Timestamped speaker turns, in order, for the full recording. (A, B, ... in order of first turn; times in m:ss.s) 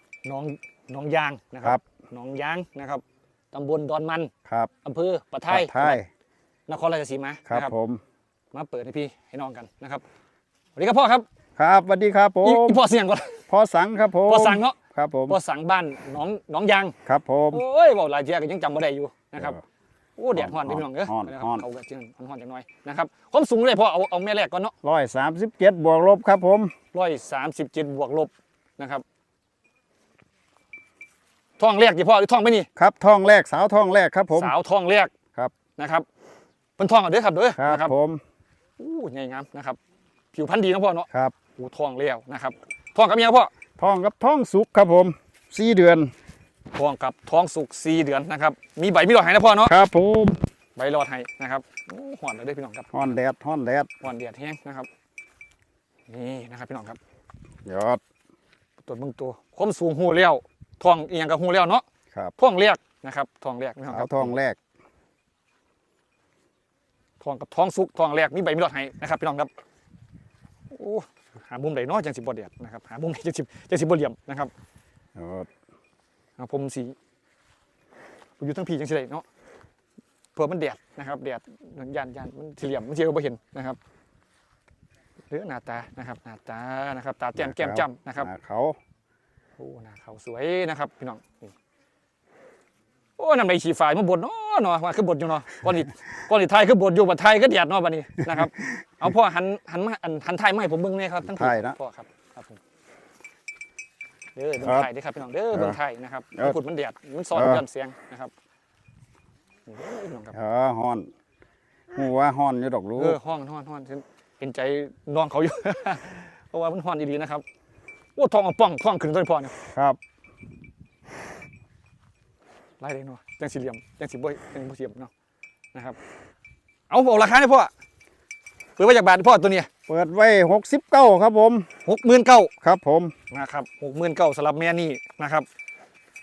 0:00.2-0:04.3 A
0:04.8-0:06.0 A
0:05.5-0:06.1 B
0:06.7-0:07.7 A
0:07.5-0:08.0 B
0:08.5-0:10.0 A
0:10.8-0:11.2 A
0:11.6-0:12.8 B
0:12.4-0:13.4 A
0:13.5-0:15.4 B
0:14.3-0:16.9 A
0:17.0-0:17.6 B
0:17.5-0:19.6 A
0:20.2-0:24.7 A
0:20.3-0:21.6 B
0:24.8-0:26.7 B
0:26.9-0:29.0 A
0:31.6-0:32.7 A
0:32.8-0:34.5 B
0:34.3-0:35.1 A
0:35.8-0:36.1 A
0:36.8-0:37.9 A
0:37.6-0:38.2 B
0:38.8-0:39.8 A
0:40.3-0:43.5 A
0:43.8-0:46.1 B
0:46.7-0:49.8 A
0:49.6-0:50.4 B
0:50.8-0:53.1 A
0:52.9-0:53.9 B
0:54.0-0:54.9 A
0:56.1-0:57.0 A
0:57.6-0:58.0 B
0:58.8-1:01.8 A
1:02.4-1:04.3 A
1:03.9-1:04.6 B
1:07.2-1:09.5 A
1:10.7-1:14.5 A
1:15.2-1:15.5 B
1:16.4-1:17.0 A
1:18.4-1:19.2 A
1:20.3-1:23.8 A
1:25.3-1:28.3 A
1:27.4-1:28.8 B
1:29.6-1:31.5 A
1:33.2-1:42.6 A
1:41.2-1:41.8 B
1:44.4-1:48.3 A
1:44.6-1:44.9 B
1:45.5-1:45.8 B
1:47.3-1:47.6 B
1:49.7-1:50.3 A
1:50.3-1:51.1 B
1:51.9-1:53.2 B
1:53.0-1:57.4 A
1:58.2-1:59.5 A
1:59.7-2:00.0 B
2:02.8-2:05.1 A
2:06.9-2:07.7 A
2:08.8-2:09.7 A
2:09.9-2:11.7 B
2:11.8-2:12.5 A
2:12.6-2:13.1 B
2:13.3-2:15.5 A